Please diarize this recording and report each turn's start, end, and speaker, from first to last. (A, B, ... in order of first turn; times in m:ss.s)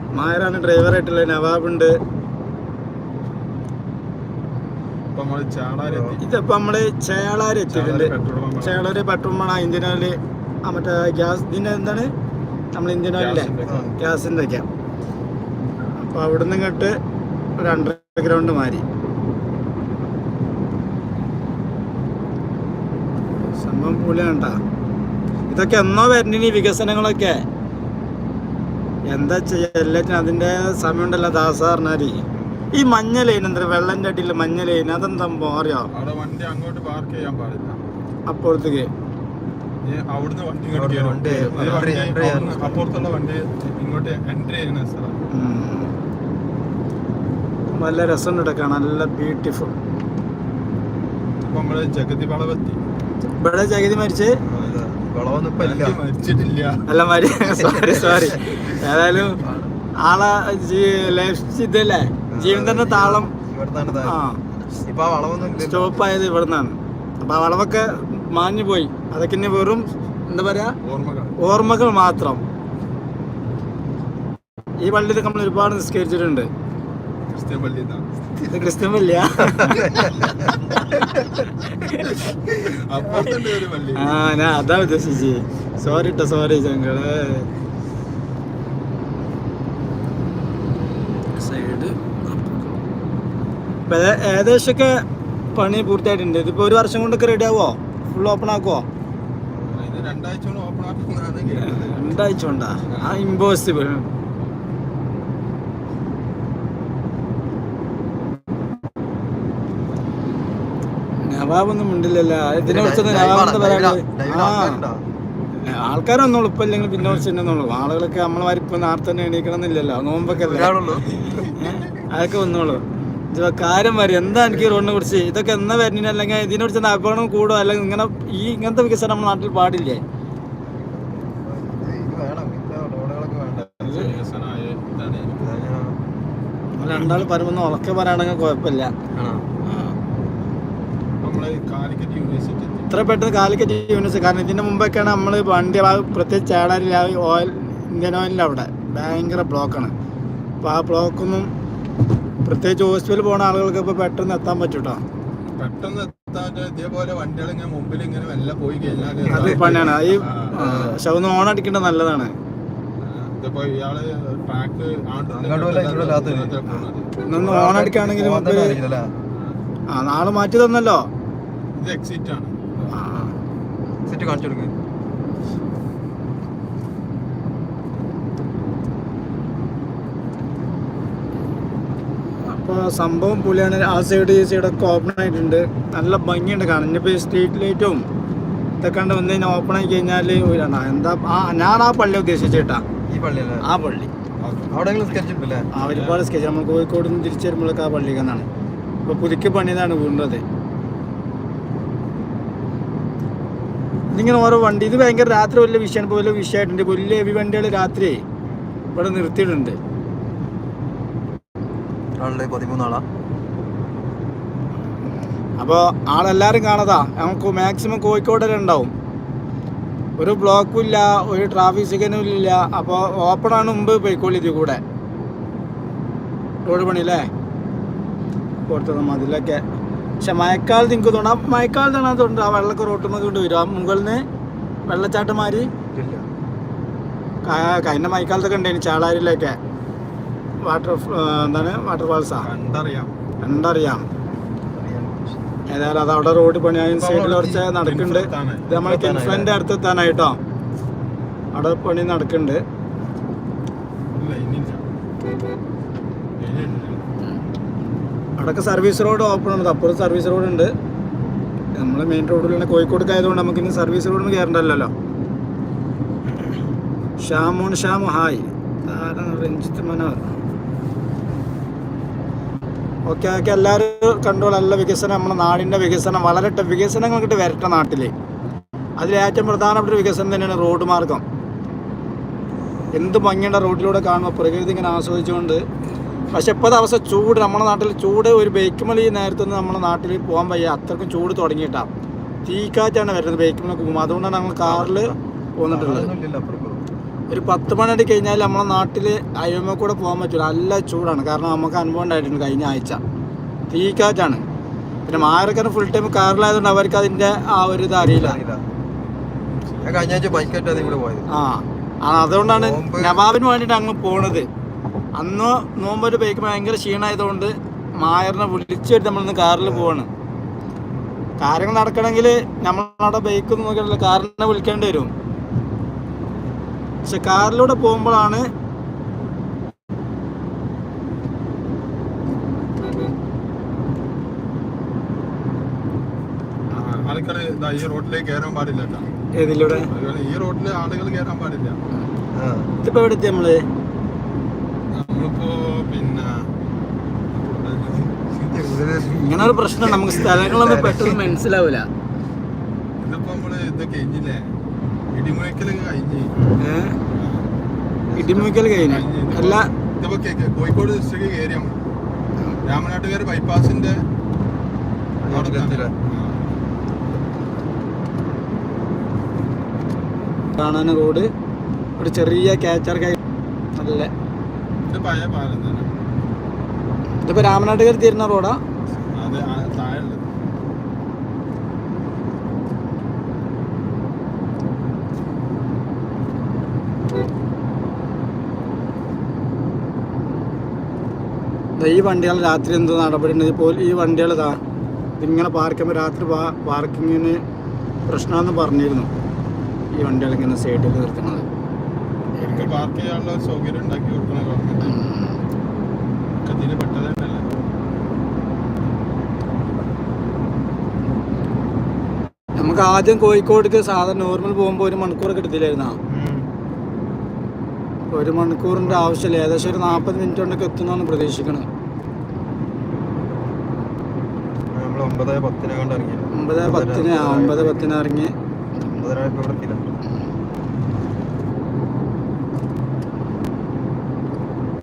0:00.1-0:01.9 A
0:05.1-0:06.2 B
0:05.8-0:06.2 C
0:06.2-0:12.1 A
0:07.7-0:08.8 B
0:12.7-0:14.7 A
0:13.1-0:14.0 B
0:13.6-0:13.9 C
0:16.0-0:16.9 A
0:17.6-0:18.8 A
0:23.4-0:24.6 A
0:25.5-0:27.4 A
0:29.1-0:32.2 A
0:32.7-0:35.9 A
0:35.9-0:37.8 B
0:38.3-0:38.9 A
0:39.8-0:45.3 B
0:40.7-0:42.9 C
0:45.3-0:45.9 A
0:47.7-0:49.7 A
0:51.4-0:52.8 B
0:53.2-0:54.4 A
0:54.4-0:56.0 C
0:54.5-0:54.8 B
0:55.5-0:56.8 B
0:56.9-0:59.4 A
0:57.4-0:59.7 C
1:00.0-1:03.3 A
1:02.3-1:04.2 C
1:04.0-1:04.4 A
1:04.7-1:06.0 C
1:05.5-1:10.8 A
1:10.8-1:11.4 B
1:11.4-1:12.4 A
1:14.8-1:16.5 A
1:17.3-1:18.1 B
1:18.5-1:19.8 A
1:19.4-1:21.5 C
1:19.6-1:20.9 B
1:21.6-1:22.2 A
1:22.0-1:24.2 B
1:24.0-1:27.5 A
1:31.3-1:32.8 A
1:33.9-1:35.0 A
1:35.5-1:38.8 A
1:39.5-1:39.9 C
1:39.7-1:42.2 B
1:41.6-1:44.1 A
1:42.9-1:43.2 B
1:51.2-1:54.8 A
1:52.6-1:55.0 C
1:55.6-2:10.0 A
2:00.3-2:02.1 C
2:10.6-2:13.9 C
2:13.8-2:15.7 B
2:13.8-2:14.1 A
2:15.4-2:16.0 C
2:16.8-2:18.9 A
2:16.8-2:17.3 B
2:19.2-2:19.4 C
2:19.7-2:20.0 A
2:21.2-2:22.9 B
2:22.9-2:29.9 A
2:30.6-2:31.5 A
2:32.4-2:35.0 A
2:35.4-2:40.6 B
2:39.2-2:40.0 C
2:39.3-2:42.3 A
2:40.5-2:41.0 C
2:43.0-2:47.1 B
2:45.3-2:49.1 C
2:47.2-2:48.8 A
2:49.9-2:51.0 A
2:51.8-2:53.0 B
2:52.9-2:53.3 A
2:54.0-2:54.7 C
3:02.4-3:08.0 A
3:08.8-3:12.8 A
3:13.1-3:13.6 C
3:13.6-3:14.1 A
3:14.4-3:14.8 B
3:14.7-3:15.7 C
3:15.7-3:18.5 A
3:15.8-3:16.3 B
3:19.0-3:20.4 A
3:24.1-3:28.2 A
3:28.9-3:29.8 A
3:32.2-3:33.0 C
3:35.6-3:38.9 A
3:40.2-3:44.8 A
3:46.6-3:47.3 A
3:48.7-3:49.6 A
3:50.2-3:54.2 A
3:54.9-3:55.7 A
3:55.9-3:56.3 C
3:57.4-3:59.6 A
4:00.6-4:02.5 A
4:02.3-4:03.2 B
4:03.4-4:04.1 A
4:04.6-4:05.4 C
4:05.7-4:10.4 A
4:06.9-4:07.7 C
4:07.7-4:08.8 B
4:08.7-4:09.5 C
4:11.5-4:12.6 A
4:14.1-4:14.9 B
4:16.4-4:17.1 B
4:18.4-4:20.7 A
4:21.8-4:24.9 A
4:27.2-4:30.3 A
4:33.1-4:38.1 A
4:39.0-4:41.2 A
4:42.9-4:45.6 A
4:46.3-4:51.9 A
4:52.4-4:56.1 A
4:54.6-4:56.8 C
4:57.3-5:03.0 A
5:03.7-5:04.4 A
5:05.1-5:08.4 A
5:08.0-5:08.6 C
5:09.5-5:10.5 B
5:09.8-5:11.3 C
5:11.3-5:14.4 A
5:12.3-5:13.2 C
5:15.2-5:20.1 A
5:19.6-5:19.9 C
5:21.4-5:25.1 A
5:27.0-5:28.4 A
5:36.7-5:39.1 B
5:39.3-5:39.9 A
5:39.6-5:41.8 B
5:42.3-5:42.7 C
5:42.8-5:43.6 A
5:44.9-5:46.5 B
5:47.3-5:48.4 B
5:48.4-5:51.3 C
5:49.1-5:51.8 A
5:53.0-5:54.5 B
5:55.1-5:56.3 B
5:56.3-5:56.6 C
5:56.6-5:57.0 A
5:57.1-5:57.5 B
5:58.1-5:58.6 C
5:58.2-5:59.7 A
5:58.6-6:01.8 B
6:02.6-6:04.0 B
6:05.2-6:05.9 C
6:05.2-6:06.5 B
6:10.5-6:11.3 A
6:12.0-6:13.2 A
6:13.8-6:14.1 A
6:14.8-6:15.9 B
6:17.2-6:18.6 A
6:19.1-6:20.2 B
6:31.8-6:34.6 A
6:35.2-6:37.4 A
6:38.1-6:39.1 A
6:39.9-6:41.5 A
6:42.4-6:42.7 A
6:42.4-6:45.0 B
6:44.8-6:45.4 A
6:46.4-6:47.5 B
6:52.6-6:56.0 A
6:56.1-6:56.5 C
6:58.1-7:01.7 A
6:58.8-7:00.0 B
7:04.7-7:07.9 C
7:06.3-7:08.3 A
7:08.8-7:09.8 C